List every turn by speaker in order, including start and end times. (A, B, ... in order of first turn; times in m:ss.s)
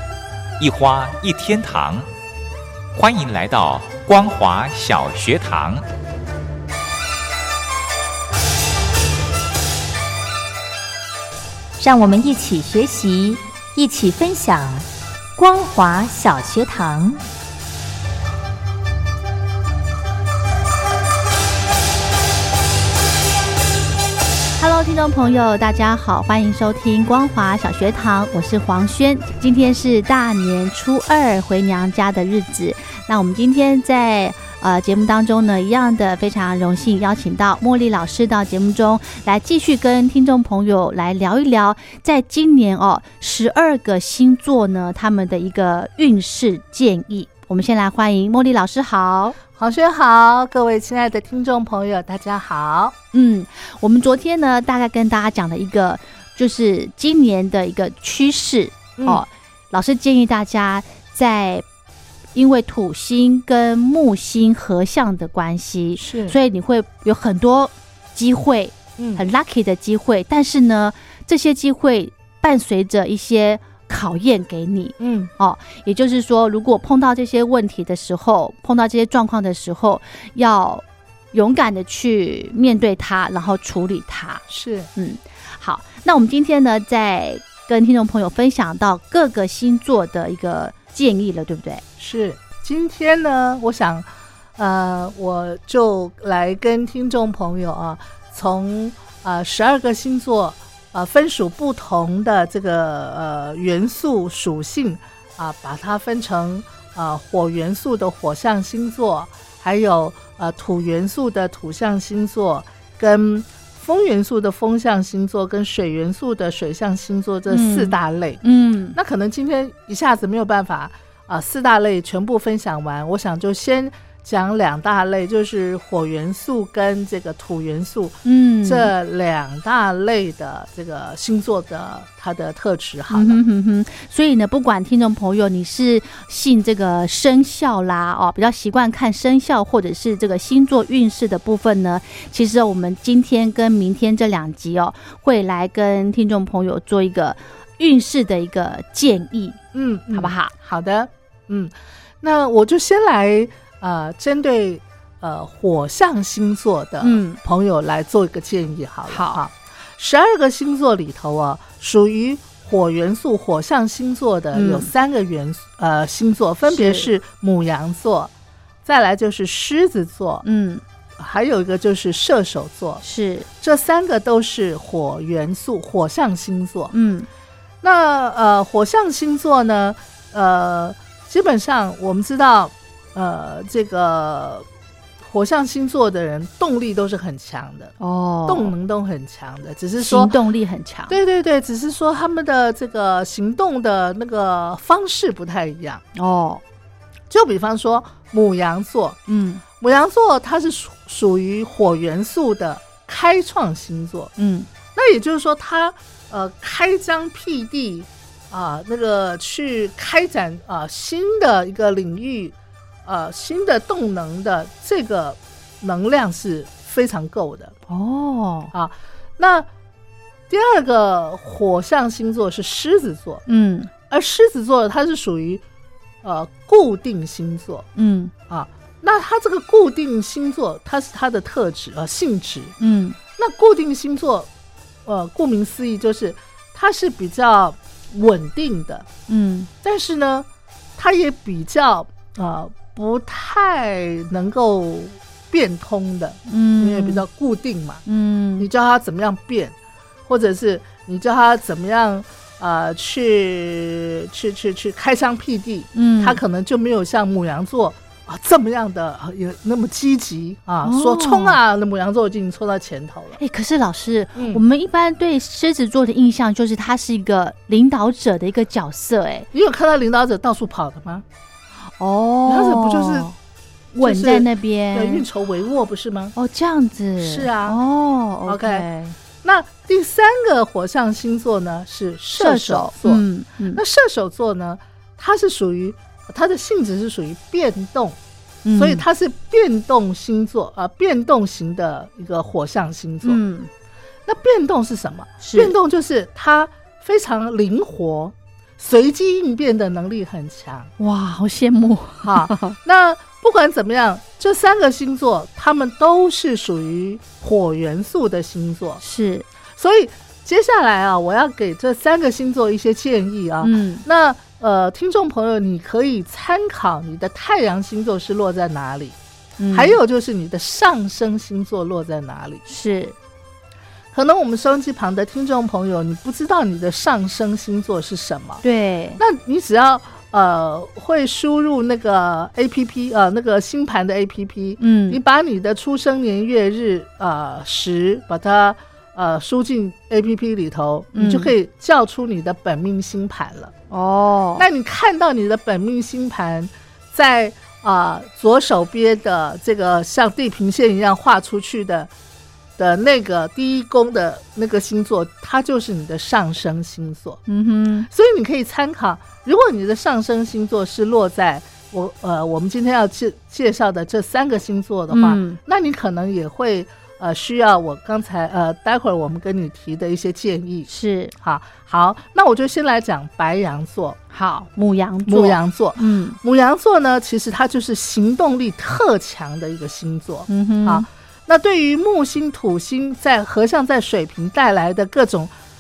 0:00.6-0:02.1 A
0:03.0-0:05.8 A
0:11.8-0:17.2 B
0:24.6-0:49.4 C
0:49.5-0:53.0 D
0:53.1-1:01.6 C
0:59.0-0:59.2 D
1:02.4-1:24.4 C
1:06.0-1:06.4 D
1:09.0-1:09.2 D
1:15.0-1:15.3 D
1:24.5-1:24.9 D
1:25.0-1:31.8 C
1:32.0-1:58.4 D
1:57.5-1:59.0 C
1:58.9-2:13.4 D
2:08.2-2:08.9 C
2:13.1-2:30.5 C
2:29.7-2:48.3 D
2:37.0-2:37.4 C
2:39.1-2:39.4 C
2:44.5-2:44.9 C
2:46.7-2:47.1 C
2:48.8-2:50.4 D
2:50.4-2:50.8 C
2:51.2-2:53.0 D
2:53.0-2:53.5 C
2:53.6-2:56.9 D
2:56.9-2:57.3 C
2:57.8-3:04.7 D
3:05.2-3:07.9 D
3:08.0-3:08.7 C
3:08.5-3:10.3 D
3:10.0-3:11.2 C
3:11.1-3:16.0 D
3:16.2-3:16.6 C
3:17.3-3:19.2 D
3:19.3-3:19.6 C
3:19.8-3:24.3 D
3:24.4-3:24.7 C
3:25.0-3:37.7 D
3:37.9-3:38.7 C
3:38.7-3:39.7 D
3:40.5-3:43.4 D
3:43.5-3:43.9 C
3:44.1-3:45.6 D
3:46.2-3:47.9 D
3:48.0-3:48.3 C
3:48.5-3:52.7 D
3:52.8-3:53.2 C
3:53.4-3:54.5 D
3:55.0-3:59.1 D
3:59.3-3:59.7 C
3:59.8-4:08.0 D
4:06.5-4:07.2 C
4:08.1-4:08.7 C
4:08.6-4:09.8 D
4:10.3-4:23.4 D
4:15.9-4:16.4 C
4:20.8-4:21.6 C
4:23.4-4:29.5 C
4:24.4-4:24.6 D
4:29.5-4:31.2 D
4:32.0-4:33.4 C
4:32.5-4:33.3 D
4:33.9-4:35.2 C
4:34.0-4:36.3 D
4:36.4-4:39.2 C
4:37.2-4:37.8 D
4:38.5-4:38.9 D
4:39.4-4:43.2 D
4:42.4-4:43.8 C
4:43.7-4:48.2 D
4:48.6-4:49.0 C
4:48.7-4:53.4 D
4:53.2-4:53.7 C
4:54.3-5:00.9 D
4:55.4-4:55.7 C
5:01.0-5:02.8 C
5:02.2-5:09.0 D
5:09.0-5:09.5 C
5:09.8-5:19.2 D
5:13.6-5:14.0 C
5:19.6-5:20.0 C
5:19.7-5:22.6 D
5:22.7-5:23.2 C
5:24.1-5:28.6 D
5:28.6-5:29.2 C
5:29.2-5:43.7 D
5:34.8-5:35.2 C
5:41.1-5:41.5 C
5:43.9-5:44.7 C
5:44.6-5:52.1 D
5:52.8-5:57.4 D
5:57.5-5:58.1 C
5:58.1-6:14.2 D
6:05.1-6:05.6 C
6:10.9-6:11.3 C
6:14.3-6:16.4 C
6:15.2-6:25.5 D
6:20.5-6:21.1 C